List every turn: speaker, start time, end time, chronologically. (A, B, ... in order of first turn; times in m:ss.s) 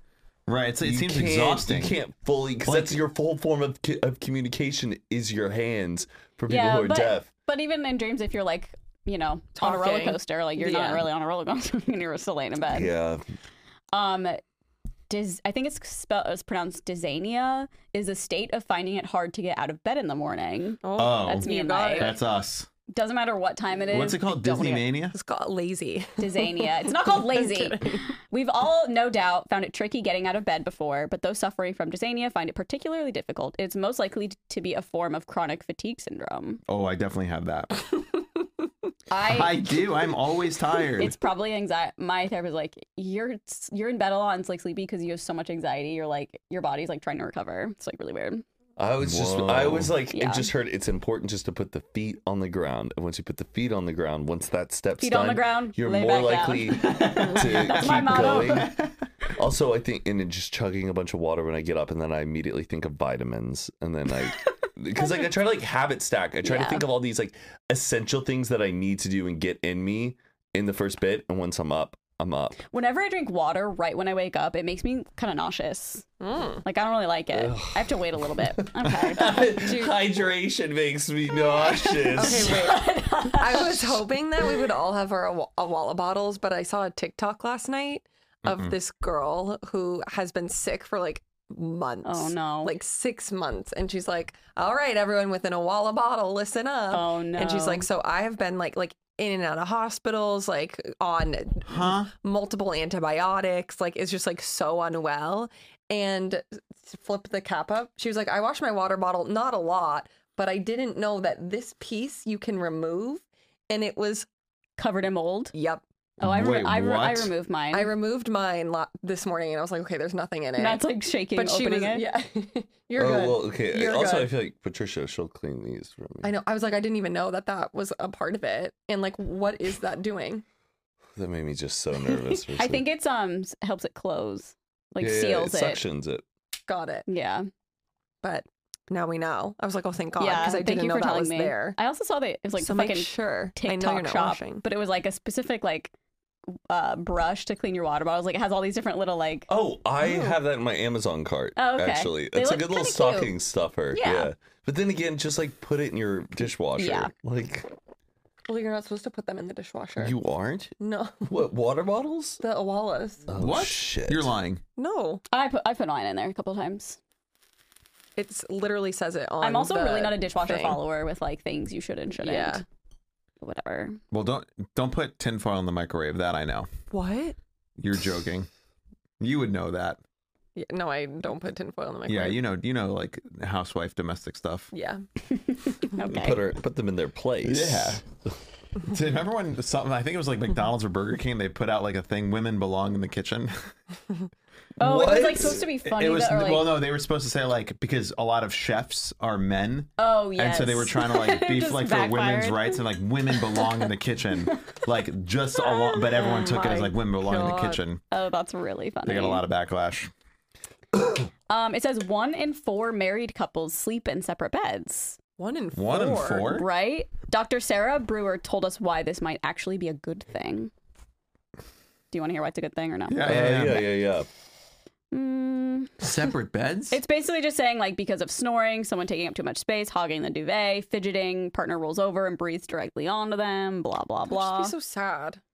0:00.5-0:02.0 A
0:00.8-0:07.3 B
0:02.6-0:03.0 A
0:06.5-0:12.9 C
0:09.6-0:11.1 D
0:12.7-0:13.2 B
0:13.9-0:14.4 C
0:15.1-0:22.1 C
0:20.8-0:22.2 D
0:21.0-0:22.7 A
0:22.9-0:24.8 C
0:23.9-0:25.1 A
0:25.1-0:28.0 D
0:26.2-0:36.6 C
0:36.7-0:37.8 A
0:39.1-0:39.6 C
0:39.3-0:41.2 A
0:41.0-0:48.4 C
0:48.8-0:58.7 B
0:49.0-0:49.9 A
0:50.1-0:50.5 C
0:55.0-0:58.7 C
0:56.8-0:58.9 A
0:59.3-1:12.6 B
1:06.4-1:06.9 C
1:12.7-1:16.1 C
1:16.2-1:16.6 D
1:16.6-1:19.4 C
1:17.3-1:22.7 B
1:19.4-1:20.0 D
1:21.4-1:24.0 C
1:22.1-1:54.3 D
1:28.4-1:28.8 A
1:32.0-1:32.7 C
1:36.9-1:37.8 C
1:41.7-1:42.1 A
1:54.8-1:55.5 C
1:55.5-1:55.8 D
1:56.2-1:57.3 A
1:56.2-1:57.9 C
1:57.7-2:00.8 D
2:00.6-2:02.0 C
2:01.3-2:04.3 D
2:03.0-2:06.3 B
2:06.2-2:10.4 D
2:11.2-2:12.8 B
2:12.6-2:15.8 C
2:15.0-2:16.2 B
2:16.7-2:17.0 D
2:17.1-2:17.5 C
2:18.2-2:21.8 D
2:20.2-2:25.9 C
2:22.6-2:24.6 D
2:26.7-2:29.5 C
2:29.5-2:37.7 B
2:30.0-2:30.4 D
2:31.6-2:33.3 C
2:33.9-2:34.3 C
2:36.8-2:37.1 C
2:38.5-2:40.1 D
2:40.0-2:40.7 B
2:40.8-2:41.3 D
2:41.2-2:42.4 B
2:42.4-2:43.3 D
2:43.3-2:44.3 B
2:43.3-2:44.6 A
2:44.8-2:45.2 D
2:45.3-2:47.0 C
2:48.2-2:50.8 D
2:49.4-2:52.6 C
2:52.2-2:52.6 D
2:53.4-2:54.0 C
2:54.1-2:56.7 A
2:56.9-2:57.4 D
2:57.8-2:58.5 A
2:59.2-3:00.0 A
3:00.6-3:02.4 D
3:02.1-3:04.7 A
3:04.7-3:05.0 D
3:05.5-3:06.5 C
3:06.0-3:08.0 B
3:07.4-3:08.0 A
3:08.8-3:13.7 A
3:14.8-3:15.6 B
3:14.8-3:16.8 C
3:15.8-3:28.0 A
3:20.0-3:22.8 C
3:23.4-3:23.7 C
3:26.1-3:26.9 C
3:26.2-3:27.8 D
3:28.1-3:29.4 C
3:29.0-3:30.1 A
3:31.5-3:35.2 C
3:35.4-3:36.6 D
3:35.7-3:36.7 A
3:36.5-3:40.7 C
3:42.1-3:43.8 C
3:43.1-3:43.8 A
3:43.2-3:44.3 B
3:45.1-3:45.9 C
3:46.0-3:47.0 A
3:46.9-3:54.7 C
3:54.3-3:55.4 D